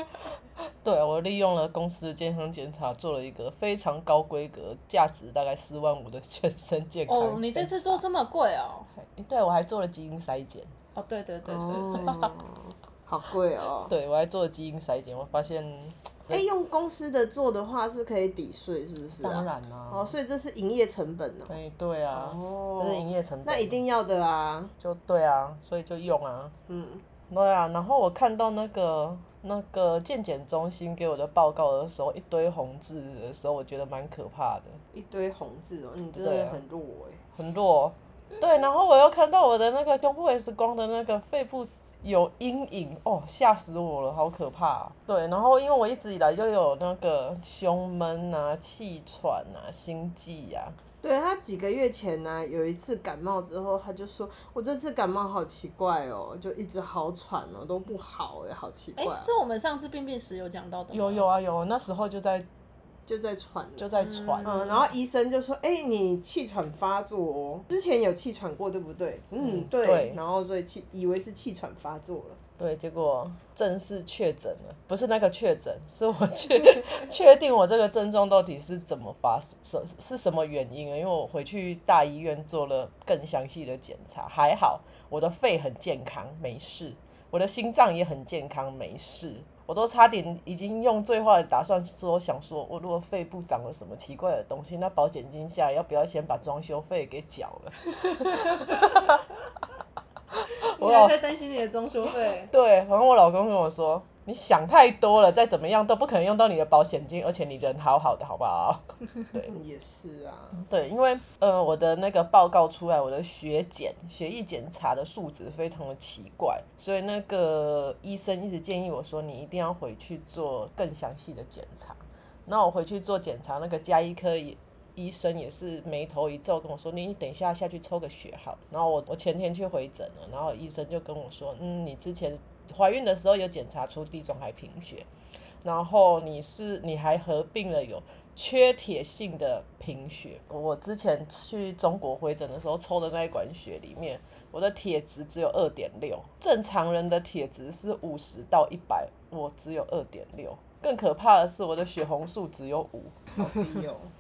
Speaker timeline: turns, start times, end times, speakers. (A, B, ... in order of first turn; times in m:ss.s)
0:00.8-0:08.0 A
0:07.1-0:08.9 B
0:09.0-0:10.7 A
0:11.0-0:12.1 B
0:11.4-0:13.9 C
0:13.9-0:16.4 A
0:16.3-0:21.6 C
0:19.2-0:20.2 A
0:21.5-0:23.8 A
0:22.1-0:24.7 C
0:24.8-0:26.6 A
0:26.7-0:27.0 C
0:27.3-0:34.8 A
0:34.9-0:37.2 C
0:36.1-0:36.6 A
0:37.4-0:50.8 A
0:51.0-0:59.3 C
0:59.0-1:01.3 B
1:00.9-1:02.5 A
1:03.1-1:03.9 C
1:03.8-1:04.5 A
1:04.0-1:04.8 B
1:04.4-1:12.4 C
1:09.4-1:10.2 A
1:12.6-1:39.2 A
1:38.1-1:39.0 B
1:40.3-1:41.2 A
1:40.6-1:42.5 B
1:42.5-1:49.5 A
1:49.5-1:50.7 C
1:50.6-2:15.1 A
2:15.6-2:33.5 A
2:33.4-2:34.1 C